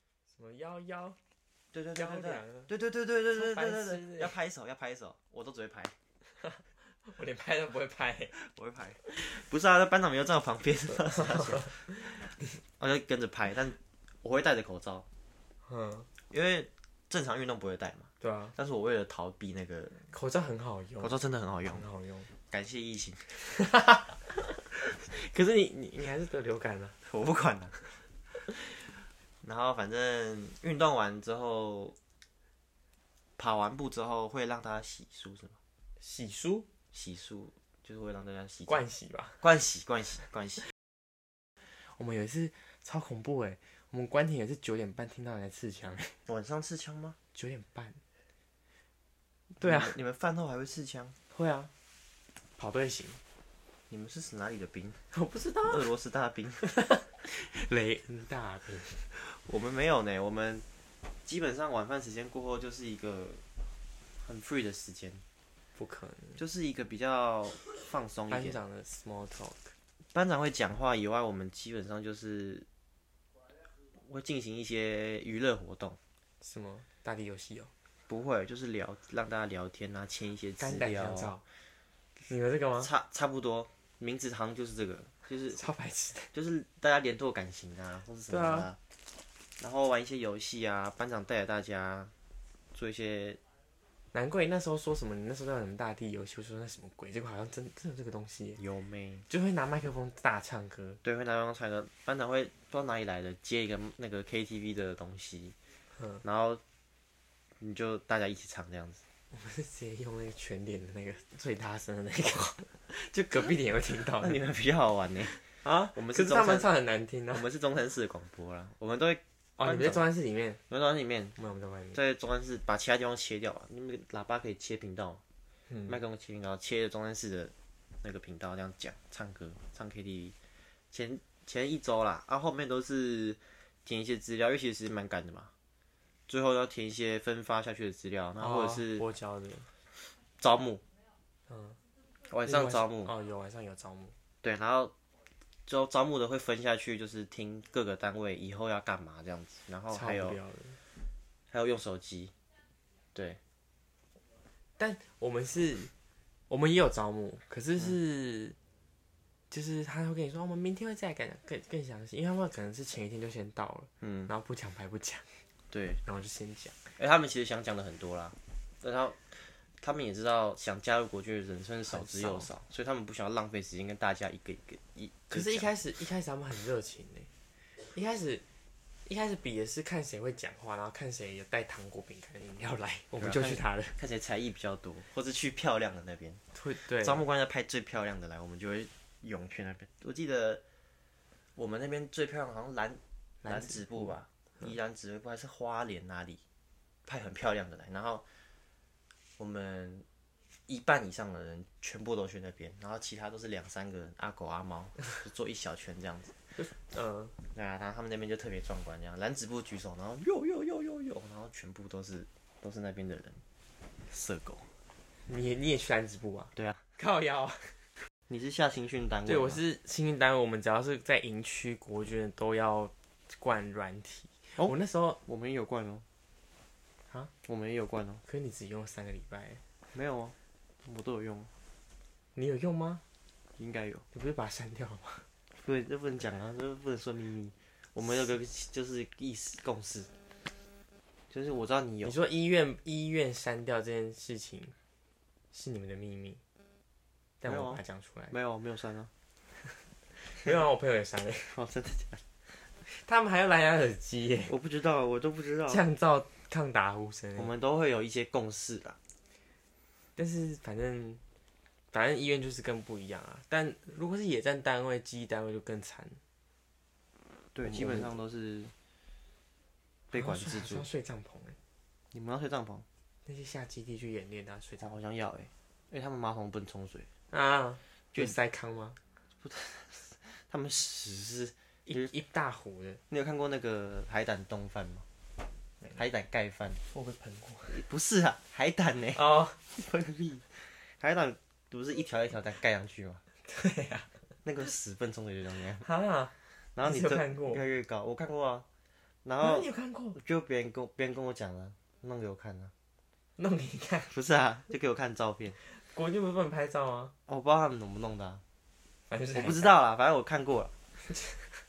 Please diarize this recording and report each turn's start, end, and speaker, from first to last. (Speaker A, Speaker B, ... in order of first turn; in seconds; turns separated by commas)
Speaker A: 0.3-1.2, Speaker B: 1.7-6.0, Speaker A: 2.0-2.7, Speaker A: 3.3-4.3, Speaker A: 6.4-8.3, Speaker B: 8.3-15.1, Speaker A: 10.9-12.5, Speaker A: 15.7-16.1, Speaker B: 16.3-20.1, Speaker A: 18.2-18.6, Speaker A: 20.1-21.1, Speaker B: 21.0-21.9, Speaker A: 21.7-22.3, Speaker B: 22.5-23.5, Speaker A: 23.5-27.0, Speaker B: 27.1-27.9, Speaker B: 29.4-32.0, Speaker B: 33.4-35.6, Speaker A: 36.0-36.7, Speaker B: 36.9-38.8, Speaker A: 38.7-39.4, Speaker B: 39.4-40.7, Speaker A: 41.8-46.2, Speaker B: 46.3-47.2, Speaker A: 47.3-48.0, Speaker B: 49.5-51.1, Speaker A: 49.6-49.9, Speaker A: 51.3-51.7, Speaker A: 52.6-53.2, Speaker B: 53.9-55.0, Speaker A: 55.1-55.9, Speaker B: 55.6-56.7, Speaker A: 56.6-59.1, Speaker B: 59.1-60.6, Speaker B: 61.2-63.4, Speaker B: 64.2-65.2, Speaker A: 65.8-66.4, Speaker B: 66.4-68.6, Speaker A: 68.3-69.7, Speaker B: 70.1-72.7, Speaker B: 73.9-76.0, Speaker A: 76.4-77.7, Speaker B: 78.1-81.3, Speaker A: 80.6-81.4, Speaker A: 82.3-82.9, Speaker B: 82.8-85.6, Speaker A: 85.5-86.3, Speaker B: 86.3-88.8, Speaker A: 88.3-88.7, Speaker B: 89.6-92.1, Speaker B: 92.7-93.4, Speaker A: 94.1-98.6, Speaker B: 98.6-99.3, Speaker A: 99.3-101.0, Speaker B: 101.0-105.5, Speaker A: 106.0-106.2, Speaker B: 106.2-106.6, Speaker B: 107.6-109.0, Speaker A: 109.3-114.4, Speaker B: 114.2-115.4, Speaker A: 115.5-117.5, Speaker B: 116.0-116.7, Speaker B: 117.3-120.1, Speaker A: 119.6-120.6, Speaker B: 120.7-121.4, Speaker A: 121.4-122.0, Speaker B: 121.9-125.2, Speaker A: 125.7-126.0, Speaker B: 125.9-130.3, Speaker B: 130.9-135.5, Speaker B: 136.3-139.1, Speaker A: 138.4-139.7, Speaker B: 140.4-140.8, Speaker A: 141.5-141.8, Speaker B: 142.3-143.1, Speaker A: 142.4-144.2, Speaker B: 144.4-144.9, Speaker B: 145.7-150.4, Speaker A: 149.9-150.8, Speaker B: 151.5-152.3, Speaker B: 153.2-153.4, Speaker A: 154.8-155.9, Speaker A: 156.5-158.6, Speaker A: 159.5-165.4, Speaker B: 164.0-164.3, Speaker B: 165.7-166.0, Speaker A: 166.1-166.8, Speaker B: 167.0-175.7, Speaker A: 171.9-172.5, Speaker A: 175.3-177.3, Speaker A: 177.9-178.4, Speaker A: 179.1-184.0, Speaker B: 183.2-186.4, Speaker A: 186.5-187.2, Speaker B: 187.0-190.6, Speaker B: 191.6-196.4, Speaker A: 193.4-194.7, Speaker B: 197.1-198.2, Speaker B: 199.4-200.1, Speaker B: 200.7-206.3, Speaker A: 206.5-207.4, Speaker B: 207.5-213.4, Speaker B: 214.1-214.7, Speaker A: 215.3-217.9, Speaker B: 218.3-219.6, Speaker A: 219.3-225.2, Speaker B: 224.6-226.1, Speaker B: 227.4-228.2, Speaker A: 228.3-229.6, Speaker B: 229.9-231.5, Speaker A: 232.3-233.0, Speaker B: 233.6-234.1, Speaker A: 234.1-235.3, Speaker B: 235.5-240.1, Speaker B: 241.3-242.2, Speaker A: 242.0-244.8, Speaker A: 245.5-246.4, Speaker A: 247.4-248.3, Speaker B: 247.5-249.1, Speaker A: 250.2-251.6, Speaker B: 251.5-252.2, Speaker A: 252.8-254.5, Speaker B: 254.5-255.8, Speaker A: 255.7-257.5, Speaker B: 257.4-259.0, Speaker A: 260.2-261.2, Speaker A: 261.9-266.2, Speaker B: 267.6-268.7, Speaker A: 267.6-268.1, Speaker B: 270.1-270.9, Speaker A: 270.1-271.6, Speaker B: 272.1-272.9, Speaker A: 273.3-274.9, Speaker B: 274.8-277.1, Speaker A: 277.3-279.0, Speaker B: 279.4-282.1, Speaker A: 281.9-283.0, Speaker B: 283.1-285.1, Speaker B: 285.9-286.8, Speaker A: 286.9-287.8, Speaker B: 287.7-293.2, Speaker A: 289.1-289.6, Speaker A: 293.4-294.2, Speaker B: 294.4-295.9, Speaker A: 295.8-297.6, Speaker B: 296.8-298.7, Speaker B: 299.2-302.7, Speaker A: 299.4-300.2, Speaker A: 303.4-304.1, Speaker B: 304.1-305.6, Speaker A: 305.6-307.1, Speaker B: 307.3-308.4, Speaker A: 309.1-309.7, Speaker B: 309.3-310.7, Speaker A: 311.1-311.6